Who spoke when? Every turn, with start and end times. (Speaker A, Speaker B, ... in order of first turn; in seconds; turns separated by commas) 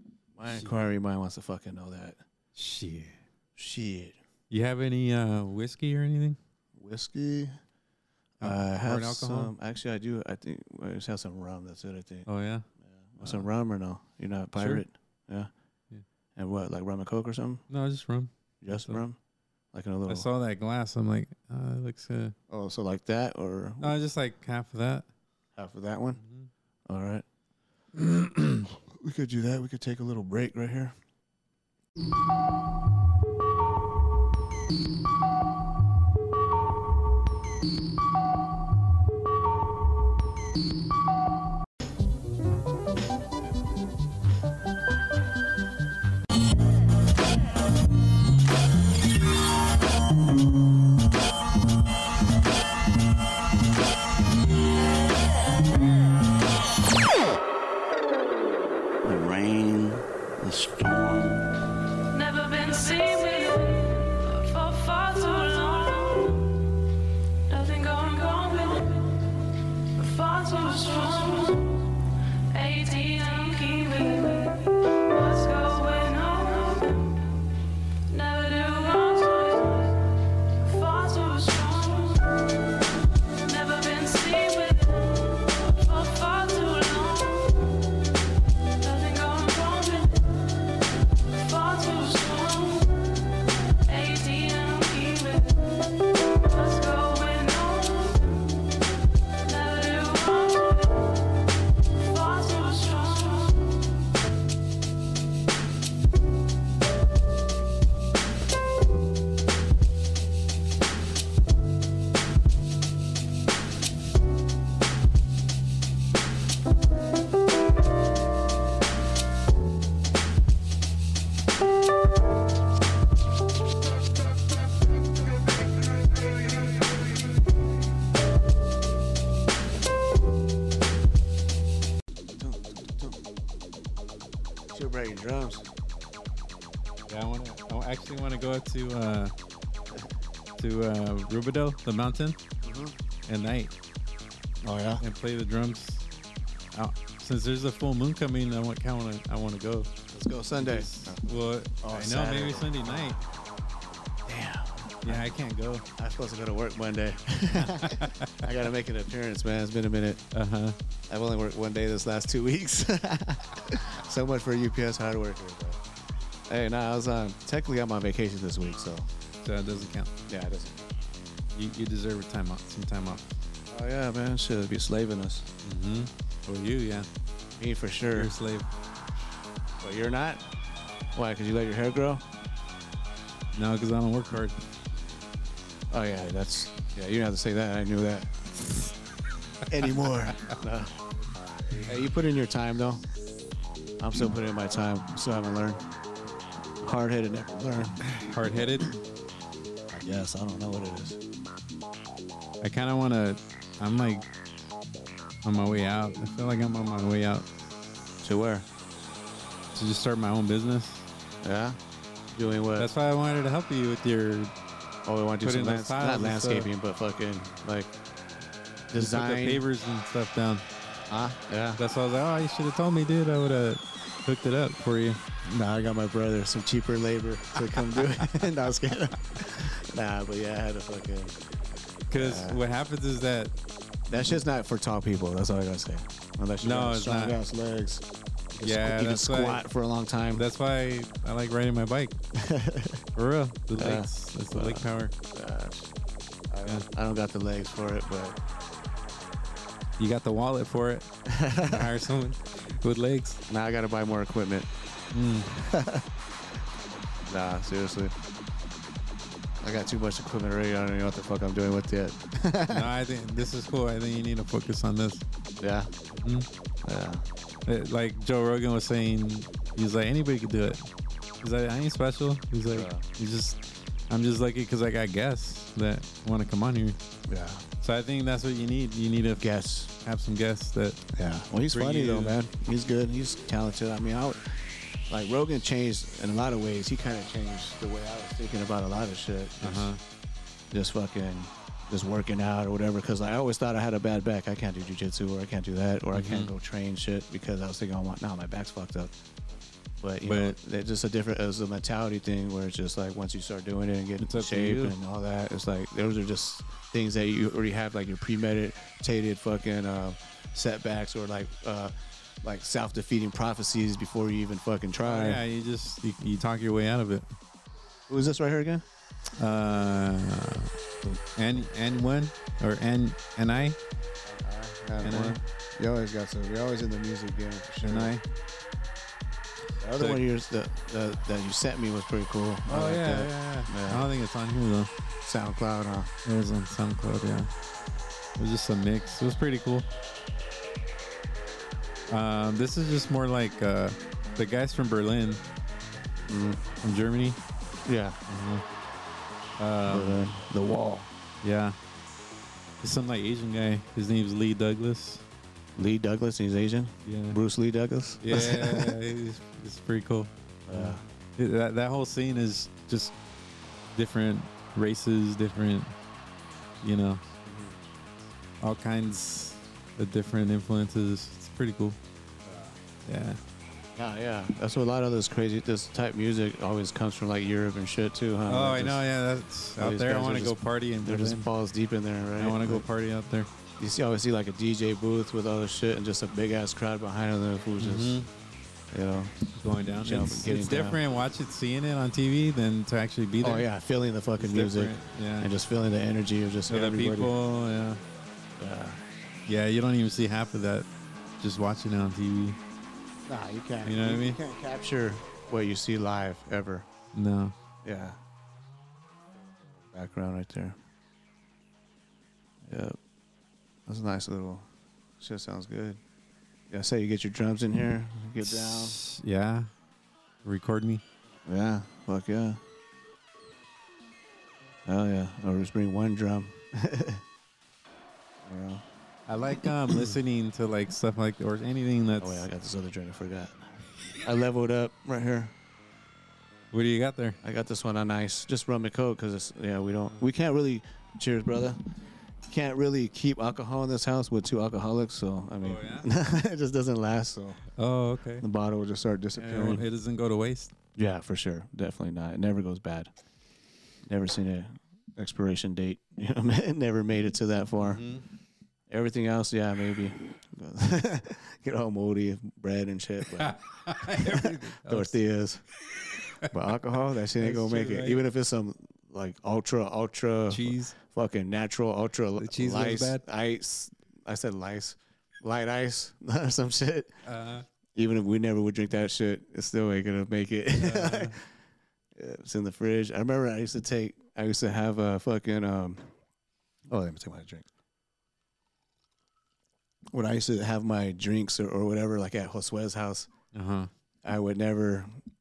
Speaker A: 0.4-2.2, Speaker B: 2.6-3.2, Speaker A: 3.6-4.2, Speaker B: 4.5-6.4, Speaker A: 6.8-7.6, Speaker A: 8.4-12.3, Speaker B: 8.4-9.5, Speaker B: 12.3-12.7, Speaker A: 12.8-15.5, Speaker B: 14.6-14.8, Speaker A: 16.4-17.6, Speaker B: 17.7-19.0, Speaker A: 18.6-19.2, Speaker A: 19.7-20.3, Speaker B: 20.1-22.4, Speaker A: 22.5-23.9, Speaker B: 23.8-25.1, Speaker A: 25.6-26.2, Speaker B: 26.2-26.5, Speaker A: 26.9-27.2, Speaker A: 28.7-30.9, Speaker C: 59.0-61.4, Speaker D: 62.1-66.6, Speaker D: 67.5-77.5, Speaker D: 78.1-88.0, Speaker D: 88.8-104.0, Speaker A: 125.9-126.9, Speaker A: 132.4-133.2, Speaker A: 134.7-135.7, Speaker B: 137.1-139.3, Speaker B: 140.6-142.4, Speaker A: 142.6-142.9, Speaker B: 143.3-143.7, Speaker A: 144.6-145.0, Speaker B: 145.0-146.1, Speaker B: 146.7-149.9, Speaker A: 150.1-153.2, Speaker B: 150.6-153.2, Speaker A: 154.3-155.2, Speaker B: 155.0-155.8, Speaker A: 156.0-160.2, Speaker B: 157.6-158.4, Speaker B: 160.3-160.8, Speaker A: 161.1-165.8, Speaker A: 166.5-169.1, Speaker B: 169.4-170.1, Speaker A: 170.3-170.9, Speaker B: 171.5-173.3, Speaker A: 173.7-175.5, Speaker B: 175.6-177.1, Speaker A: 177.6-178.3, Speaker B: 178.1-178.7, Speaker A: 179.8-180.4, Speaker A: 181.1-182.3, Speaker B: 183.5-184.7, Speaker A: 185.9-188.3, Speaker A: 189.7-191.0, Speaker A: 191.8-193.0, Speaker A: 194.0-195.9, Speaker A: 196.8-198.0, Speaker B: 198.2-199.0, Speaker A: 199.9-201.2, Speaker B: 202.6-204.3, Speaker B: 205.4-207.5, Speaker A: 208.2-208.7, Speaker B: 209.7-211.1, Speaker A: 211.4-211.8, Speaker A: 212.3-212.9, Speaker B: 212.8-214.5, Speaker A: 215.1-217.9, Speaker B: 215.4-216.7, Speaker A: 218.9-219.6, Speaker B: 219.0-220.7, Speaker A: 221.1-221.8, Speaker B: 221.8-225.2, Speaker A: 225.4-231.4, Speaker B: 232.1-233.5, Speaker A: 232.1-232.6, Speaker A: 234.1-240.4, Speaker B: 236.6-237.4, Speaker B: 238.6-239.6, Speaker B: 240.3-242.2, Speaker A: 242.3-243.0, Speaker B: 243.2-245.1, Speaker A: 243.8-245.9, Speaker A: 246.5-248.4, Speaker B: 250.0-253.4, Speaker A: 251.3-251.9, Speaker A: 253.5-254.7, Speaker B: 255.1-255.6, Speaker A: 255.5-256.1, Speaker A: 257.2-258.1, Speaker A: 259.6-262.9, Speaker B: 262.7-265.2, Speaker A: 265.6-265.9, Speaker B: 266.1-266.5, Speaker A: 266.8-267.3, Speaker B: 267.7-270.9, Speaker B: 271.4-277.0, Speaker A: 272.7-273.0, Speaker A: 277.3-277.6, Speaker B: 277.8-279.4, Speaker A: 279.4-279.9, Speaker B: 280.0-281.0, Speaker A: 281.1-289.9, Speaker B: 281.7-282.4, Speaker B: 289.6-290.0, Speaker A: 290.7-299.1, Speaker B: 296.1-296.5, Speaker A: 300.0-315.4, Speaker B: 300.3-300.6, Speaker B: 304.2-304.9, Speaker B: 315.0-317.3, Speaker A: 318.1-318.9, Speaker B: 319.4-323.8, Speaker A: 324.2-328.1, Speaker B: 325.0-325.4, Speaker B: 327.8-328.2, Speaker A: 329.8-334.1, Speaker B: 329.9-330.2, Speaker B: 332.7-334.9, Speaker A: 335.2-336.1, Speaker B: 336.2-337.5, Speaker B: 338.4-339.9, Speaker B: 342.1-345.4, Speaker A: 346.3-346.6, Speaker B: 346.8-347.4, Speaker A: 347.9-348.2, Speaker B: 348.3-348.6, Speaker B: 349.6-350.2, Speaker A: 349.9-351.1, Speaker B: 351.4-351.8, Speaker B: 352.8-355.2, Speaker A: 355.8-359.0, Speaker B: 357.1-357.4, Speaker B: 358.2-363.2, Speaker A: 360.7-361.0, Speaker B: 363.9-365.9, Speaker B: 366.8-367.2, Speaker A: 367.4-367.8, Speaker B: 368.6-372.0, Speaker A: 372.4-372.8, Speaker B: 373.1-373.4, Speaker A: 373.9-379.1, Speaker B: 378.5-381.5, Speaker A: 379.8-382.9, Speaker B: 382.4-383.5, Speaker A: 383.8-388.2, Speaker B: 387.8-388.3, Speaker A: 388.9-389.4, Speaker B: 389.6-393.7, Speaker A: 390.0-391.0, Speaker A: 393.4-397.3, Speaker B: 394.4-395.5, Speaker B: 396.7-398.0, Speaker A: 398.6-399.0, Speaker B: 399.5-400.9, Speaker B: 401.4-402.6, Speaker A: 403.3-406.9, Speaker B: 403.9-404.4, Speaker B: 407.1-407.5, Speaker A: 407.8-408.2, Speaker A: 409.8-410.8, Speaker A: 412.6-413.0, Speaker A: 413.9-414.7, Speaker A: 415.2-416.0, Speaker A: 416.7-419.0, Speaker B: 418.4-419.7, Speaker B: 420.4-421.0, Speaker A: 421.4-422.6, Speaker A: 424.9-427.2, Speaker A: 428.4-428.8, Speaker B: 429.3-432.4, Speaker A: 429.6-430.1, Speaker A: 432.2-435.5, Speaker B: 436.7-437.4, Speaker A: 437.4-441.9, Speaker A: 442.5-447.6, Speaker B: 445.6-446.1, Speaker B: 447.8-448.5, Speaker A: 448.4-449.9, Speaker B: 449.4-450.7, Speaker A: 451.0-453.1, Speaker A: 454.1-458.0, Speaker B: 457.8-458.3, Speaker A: 458.9-465.6, Speaker B: 463.4-465.1, Speaker A: 466.5-477.1, Speaker B: 467.4-468.2, Speaker B: 470.5-471.0, Speaker B: 472.4-473.2, Speaker B: 477.2-477.7, Speaker A: 477.9-481.5, Speaker B: 480.8-481.4, Speaker A: 482.2-486.1, Speaker A: 486.9-487.7, Speaker A: 490.1-493.3, Speaker B: 493.5-493.9, Speaker A: 494.2-495.2